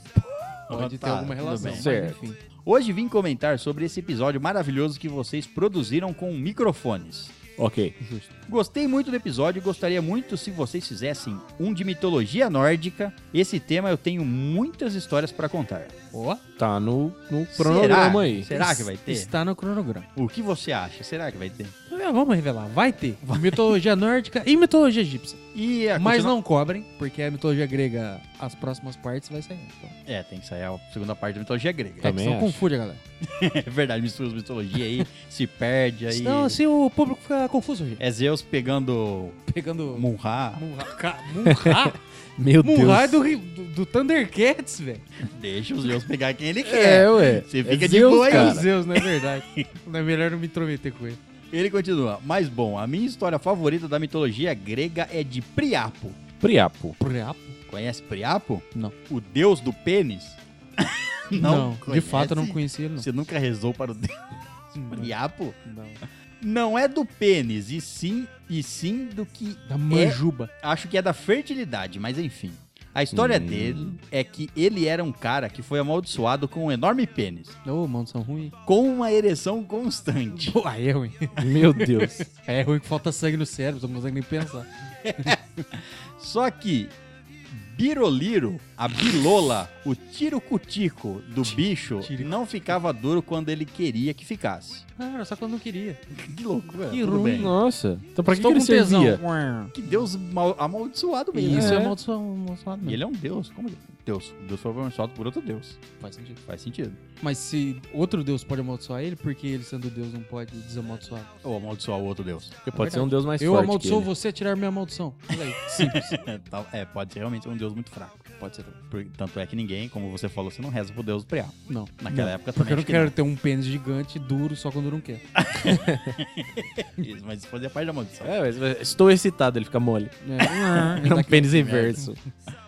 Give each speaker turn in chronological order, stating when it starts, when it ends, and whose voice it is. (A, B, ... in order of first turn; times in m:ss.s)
0:00.2-0:01.9 A
0:00.7-0:02.4 B
0:01.4-0:02.2 C
0:02.6-0:07.4 A
0:07.6-0:07.9 C
0:08.0-0:08.3 B
0:08.5-0:15.9 A
0:16.1-0:16.4 B
0:16.6-0:18.5 C
0:17.5-0:19.3 A
0:18.5-0:20.1 B
0:20.2-0:21.7 A
0:21.9-0:25.4 B
0:23.2-0:23.7 A
0:25.5-0:26.3 A
0:26.0-0:30.0 B
0:30.0-0:32.1 A
0:32.0-0:32.6 C
0:32.0-0:33.0 B
0:33.2-0:36.6 A
0:36.1-0:38.0 B
0:38.0-0:39.4 A
0:39.5-0:42.0 B
0:39.9-0:40.6 A
0:41.4-0:43.2 C
0:42.6-0:45.0 B
0:45.3-0:49.7 A
0:46.6-0:48.6 C
0:48.2-0:51.2 B
0:51.5-0:56.2 A
0:56.4-0:57.0 C
0:57.0-0:57.6 B
0:57.7-1:05.6 A
1:01.3-1:03.0 B
1:04.7-1:05.1 B
1:05.6-1:06.0 B
1:06.4-1:17.6 A
1:09.7-1:10.5 B
1:13.1-1:13.8 C
1:17.6-1:18.5 B
1:18.6-1:20.6 A
1:20.4-1:25.4 B
1:21.4-1:22.2 C
1:25.0-1:26.9 A
1:27.5-1:34.8 A
1:31.4-1:32.3 B
1:35.0-1:36.0 B
1:36.1-1:37.5 A
1:36.9-1:37.5 B
1:37.3-1:39.2 C
1:38.2-1:39.7 B
1:39.7-1:41.9 A
1:41.3-1:43.0 B
1:41.5-1:41.9 C
1:42.8-1:45.8 A
1:46.0-1:46.4 B
1:46.5-1:47.0 A
1:47.2-1:51.3 B
1:51.4-1:52.7 A
1:52.6-1:54.1 C
1:52.7-1:56.2 B
1:55.6-1:58.4 A
1:58.4-1:58.8 B
1:58.9-2:03.1 A
2:01.7-2:05.8 B
2:05.4-2:08.3 A
2:08.2-2:12.2 C
2:10.2-2:12.0 B
2:11.1-2:12.1 A